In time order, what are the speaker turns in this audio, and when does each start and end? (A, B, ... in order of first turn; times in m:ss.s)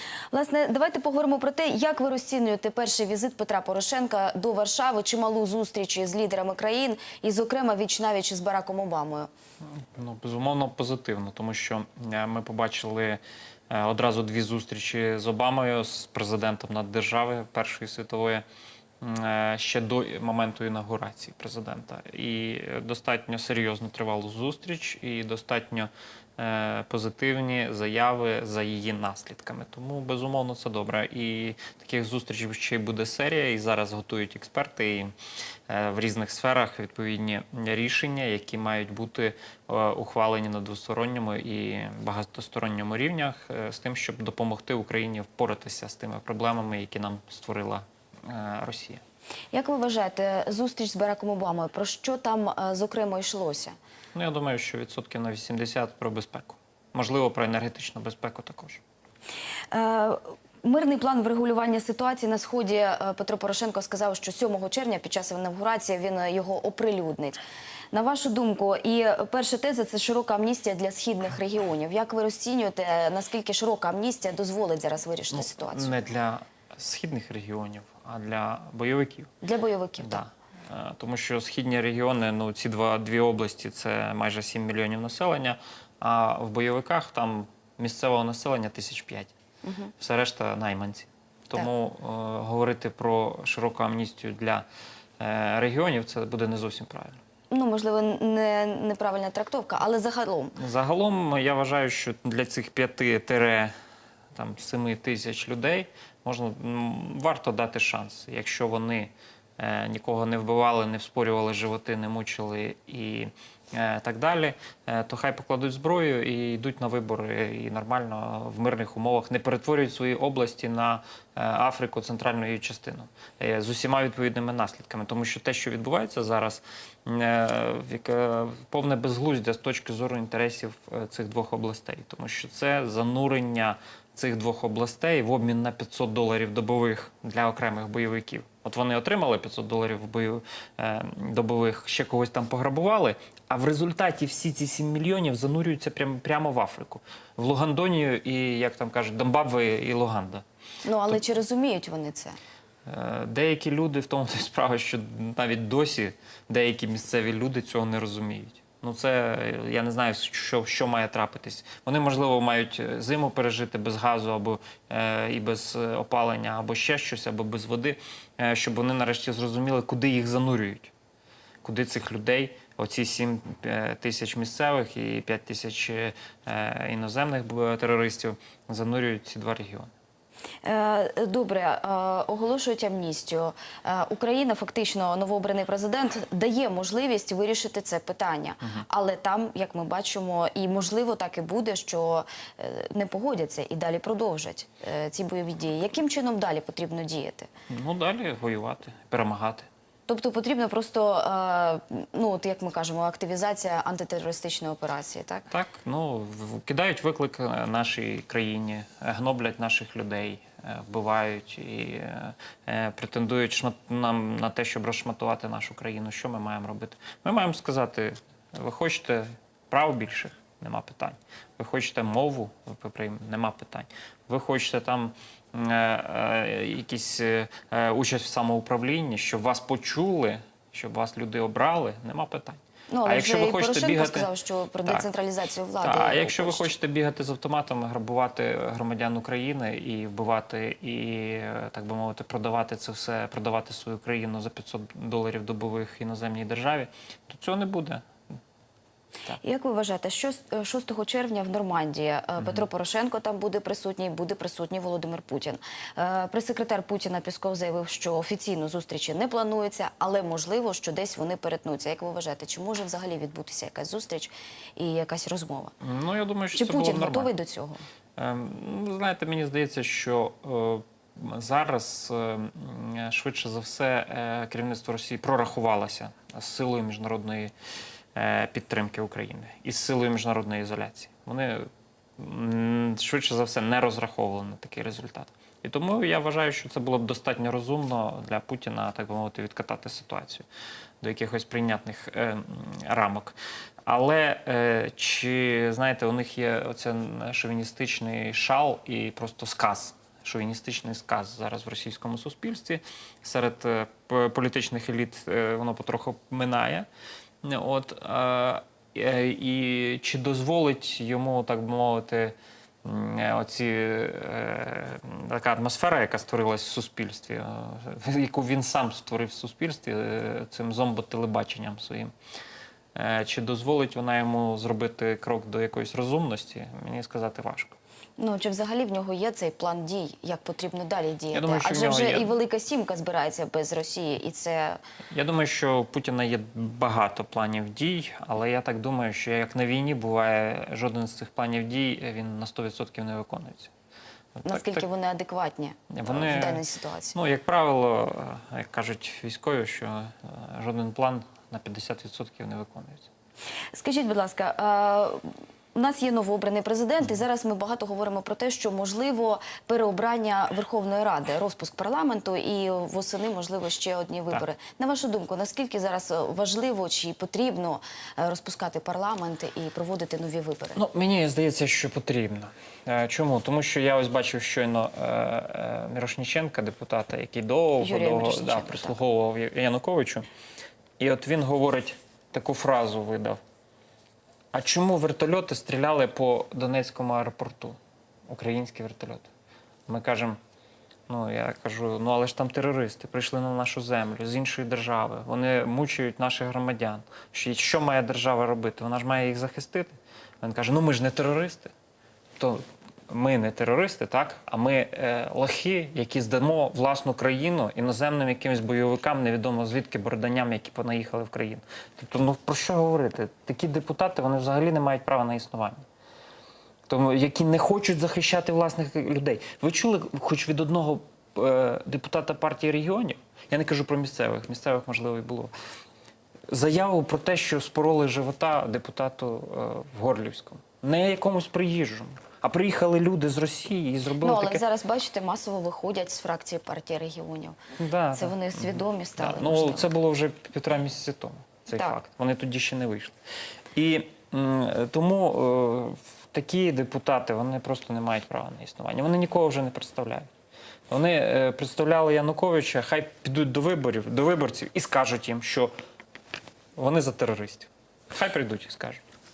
0:00.3-0:09.3 A
0:09.7-0:18.4 B
0:19.0-0:35.1 B
0:35.7-0:49.0 B
0:49.5-0:53.8 A
0:54.1-0:58.8 B
0:59.7-1:07.4 A
1:07.9-1:15.9 A
1:15.3-1:19.3 B
1:19.4-1:20.2 A
1:20.0-1:29.3 B
1:29.6-1:29.9 A
1:30.0-1:34.6 B
1:35.2-1:37.2 B
1:37.5-1:40.6 A
1:40.6-1:43.7 B
1:44.3-2:30.4 B
2:30.8-2:32.4 A
2:32.8-2:50.9 B
2:51.6-2:59.9 B
3:00.6-3:17.5 A
3:17.7-3:19.6 B
3:20.1-3:25.5 A
3:25.5-3:54.3 B
3:52.9-3:56.7 A
3:55.8-4:08.0 B
4:09.4-4:25.7 A
4:12.4-4:12.6 B
4:25.8-4:27.3 B
4:26.5-4:27.8 A
4:28.2-4:37.5 B
4:38.1-4:50.4 B
4:51.0-5:06.9 B
5:07.4-5:22.1 B
5:22.9-5:27.8 B
5:28.2-5:34.8 A
5:31.3-5:32.3 B
5:35.1-5:43.7 B
5:44.4-5:44.8 B
5:44.4-5:47.1 A
5:45.9-5:46.6 B
5:47.1-5:53.1 B
5:53.7-6:10.8 A
6:10.8-6:20.2 B
6:17.8-6:19.0 A
6:21.0-6:23.4 B
6:24.5-6:27.8 B
6:28.3-6:29.3 B
6:29.9-6:30.4 B
6:31.1-6:41.7 B
6:42.4-6:55.8 B
6:56.9-7:05.5 B
7:06.5-7:14.6 B
7:14.2-7:17.6 A
7:17.8-7:23.2 B
7:18.1-7:19.9 A
7:23.7-7:30.3 B
7:30.9-7:35.7 B
7:36.8-7:39.0 B